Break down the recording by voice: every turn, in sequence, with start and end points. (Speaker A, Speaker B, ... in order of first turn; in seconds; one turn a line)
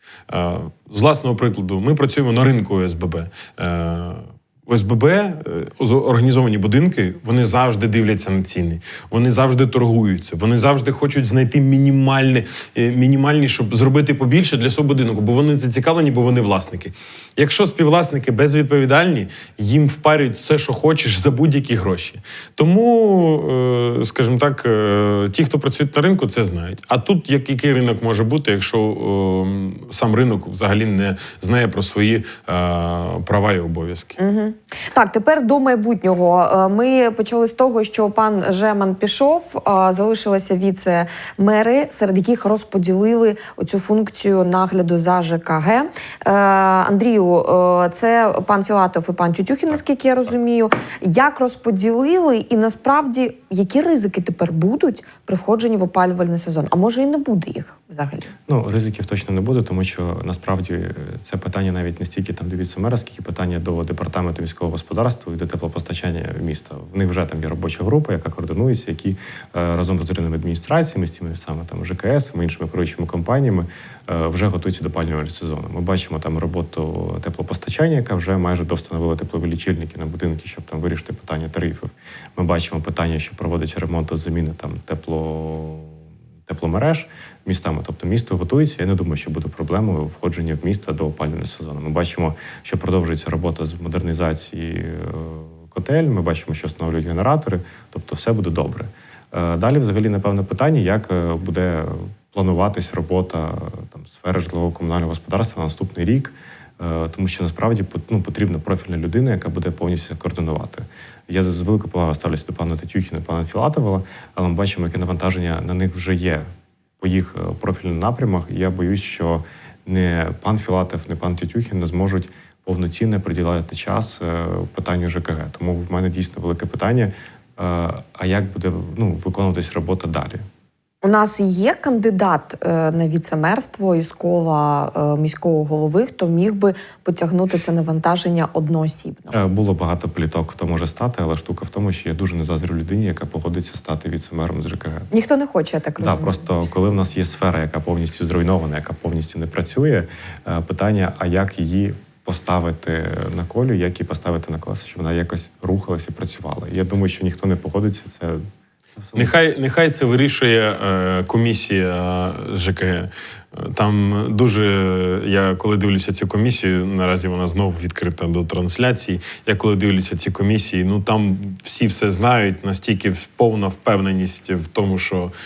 Speaker A: 0.3-34.2
Speaker B: 34.2-58.3
Speaker C: 58.5-86.0
Speaker C: 86.5-116.4
Speaker C: 117.0-130.4
Speaker B: 131.0-139.4
Speaker C: 139.3-145.1
Speaker B: 145.1-146.4
Speaker C: 146.0-158.4
Speaker C: 158.9-159.3
Speaker A: 159.2-175.3